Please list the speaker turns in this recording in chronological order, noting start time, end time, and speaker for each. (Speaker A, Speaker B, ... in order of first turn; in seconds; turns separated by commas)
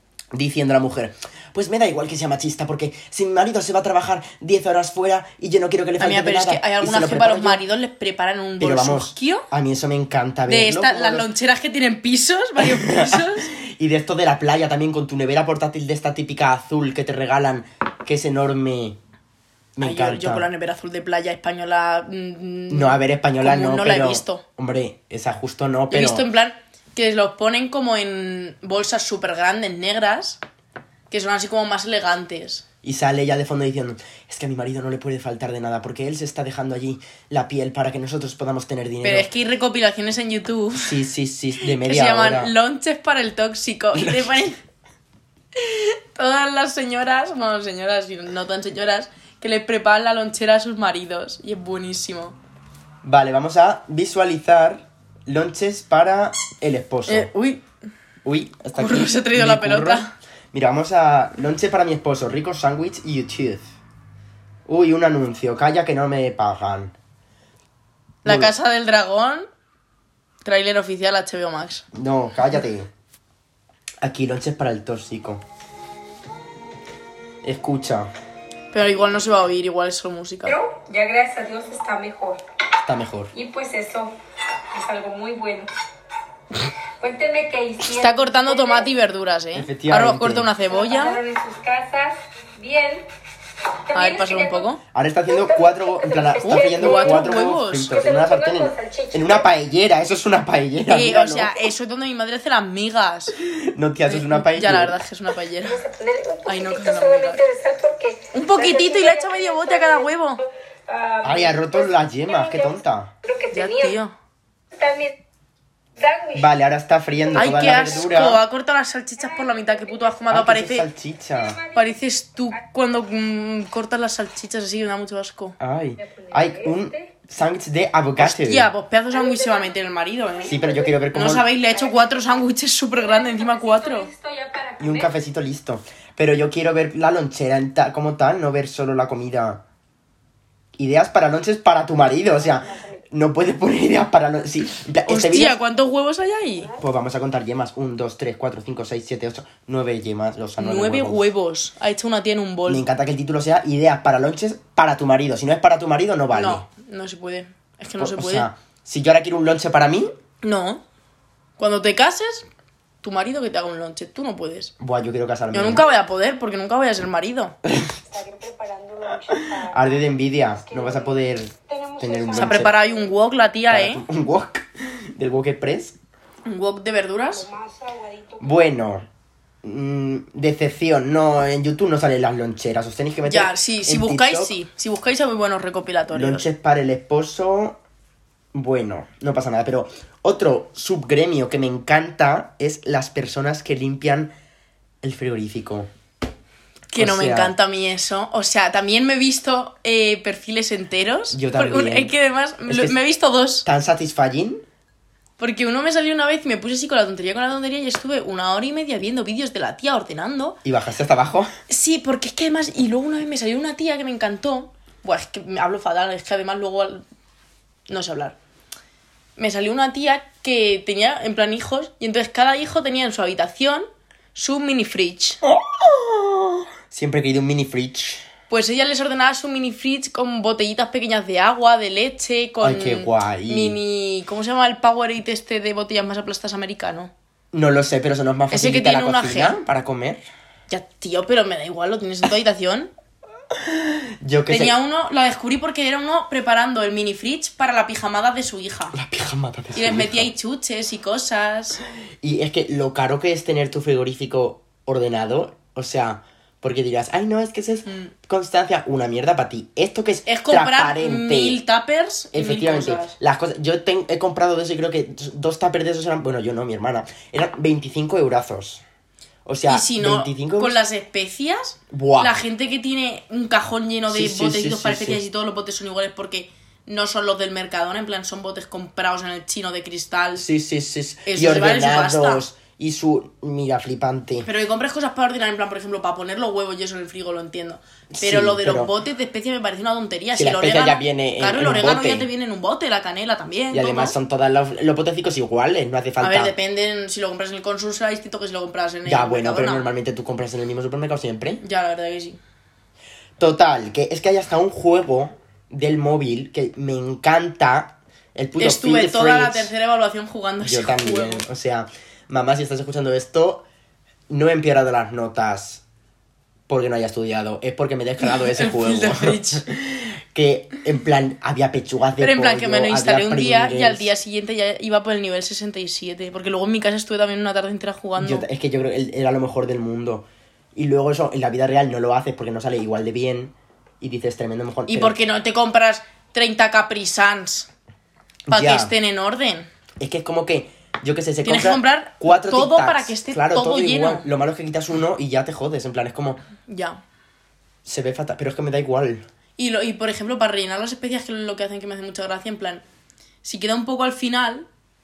Speaker A: 0.3-7.6, Speaker B: 6.0-9.4, Speaker A: 8.6-11.3, Speaker B: 10.5-13.5, Speaker A: 12.6-19.0, Speaker A: 19.8-20.5, Speaker B: 19.8-24.4, Speaker A: 22.7-26.2, Speaker B: 25.9-30.4, Speaker B: 31.1-32.6, Speaker A: 32.8-39.3, Speaker B: 39.0-41.0, Speaker A: 40.8-42.5, Speaker B: 41.6-44.6, Speaker A: 43.9-44.3, Speaker B: 45.5-52.4, Speaker A: 53.0-57.3, Speaker B: 57.1-57.6, Speaker A: 58.2-63.6, Speaker B: 58.8-60.1, Speaker A: 64.7-66.9, Speaker A: 68.2-68.5, Speaker B: 68.2-69.5, Speaker B: 70.4-71.8, Speaker A: 71.9-72.9, Speaker A: 74.0-75.4, Speaker A: 77.4-78.1, Speaker B: 78.7-80.5, Speaker C: 80.5-82.4, Speaker A: 82.8-83.3, Speaker C: 83.3-84.1, Speaker C: 84.7-85.7, Speaker C: 87.0-88.9, Speaker B: 87.9-91.2, Speaker A: 89.5-90.5, Speaker C: 90.7-93.1, Speaker C: 93.9-94.7, Speaker B: 93.9-94.8, Speaker A: 94.9-101.5, Speaker C: 95.3-99.5, Speaker B: 96.4-97.9, Speaker B: 100.9-103.3, Speaker A: 103.5-105.0, Speaker B: 104.1-105.8, Speaker C: 105.6-110.1, Speaker B: 106.5-107.4, Speaker B: 108.3-110.4, Speaker C: 110.9-114.0, Speaker A: 111.2-113.1, Speaker B: 113.5-114.1, Speaker C: 114.7-115.1, Speaker C: 116.0-116.5, Speaker A: 116.3-118.4, Speaker B: 117.3-120.9, Speaker C: 117.7-118.0, Speaker C: 119.2-120.1, Speaker A: 120.3-121.6, Speaker C: 121.3-122.0, Speaker B: 121.7-125.5, Speaker A: 125.6-128.7, Speaker C: 126.0-127.1, Speaker B: 128.2-130.6, Speaker C: 129.1-129.7, Speaker C: 130.3-131.0, Speaker A: 130.5-131.4, Speaker B: 131.1-134.1, Speaker C: 131.7-132.3, Speaker C: 132.9-135.1, Speaker A: 134.8-139.6, Speaker A: 140.8-145.6, Speaker C: 142.2-143.0, Speaker B: 145.1-146.7, Speaker A: 146.8-151.3, Speaker B: 150.6-152.8, Speaker A: 152.7-156.7, Speaker B: 156.3-158.5, Speaker A: 158.0-160.1, Speaker B: 160.4-160.8, Speaker B: 161.6-162.4, Speaker B: 163.0-164.7, Speaker A: 164.8-165.8, Speaker B: 165.5-167.6, Speaker A: 167.6-167.9, Speaker C: 168.0-173.1, Speaker A: 169.5-172.7, Speaker B: 172.3-174.0, Speaker A: 173.7-176.0, Speaker B: 176.4-177.5, Speaker C: 177.3-178.6, Speaker A: 178.4-179.1, Speaker A: 179.6-184.5, Speaker B: 183.2-186.4, Speaker A: 186.1-187.8, Speaker A: 188.5-194.3, Speaker A: 195.0-195.9, Speaker B: 196.9-203.7, Speaker A: 196.9-197.5, Speaker A: 201.3-202.1, Speaker A: 202.7-202.9, Speaker A: 203.6-204.6, Speaker B: 205.4-210.6, Speaker A: 210.6-211.5, Speaker B: 211.7-217.0, Speaker B: 217.9-218.3, Speaker B: 219.4-225.4, Speaker A: 225.4-228.3, Speaker B: 228.5-237.1, Speaker A: 232.6-233.8, Speaker A: 237.5-240.2, Speaker B: 238.5-239.6, Speaker B: 240.7-242.9, Speaker A: 243.5-244.7, Speaker B: 244.5-249.0, Speaker A: 248.9-250.3, Speaker B: 249.7-251.8, Speaker A: 252.2-261.6, Speaker B: 257.9-258.1, Speaker B: 260.3-263.1, Speaker A: 262.3-268.8, Speaker A: 269.4-270.8, Speaker B: 269.7-280.4, Speaker A: 271.9-272.4, Speaker A: 274.1-275.2, Speaker A: 280.4-284.5, Speaker B: 281.2-282.4, Speaker B: 284.4-294.1, Speaker A: 288.1-288.9, Speaker A: 290.3-292.3, Speaker A: 293.7-296.5, Speaker B: 296.2-299.9, Speaker A: 299.1-301.6, Speaker B: 301.6-302.4, Speaker A: 303.4-309.7, Speaker B: 308.6-311.4, Speaker A: 310.6-313.6, Speaker A: 314.3-315.8, Speaker A: 316.7-324.1, Speaker B: 318.2-319.6, Speaker B: 322.2-328.4, Speaker A: 328.2-335.1, Speaker B: 334.9-337.7, Speaker A: 338.5-338.9, Speaker B: 338.5-339.7, Speaker A: 340.0-346.4, Speaker B: 341.4-344.3, Speaker B: 346.7-347.0, Speaker A: 347.8-349.2, Speaker B: 349.6-352.8, Speaker B: 353.4-354.7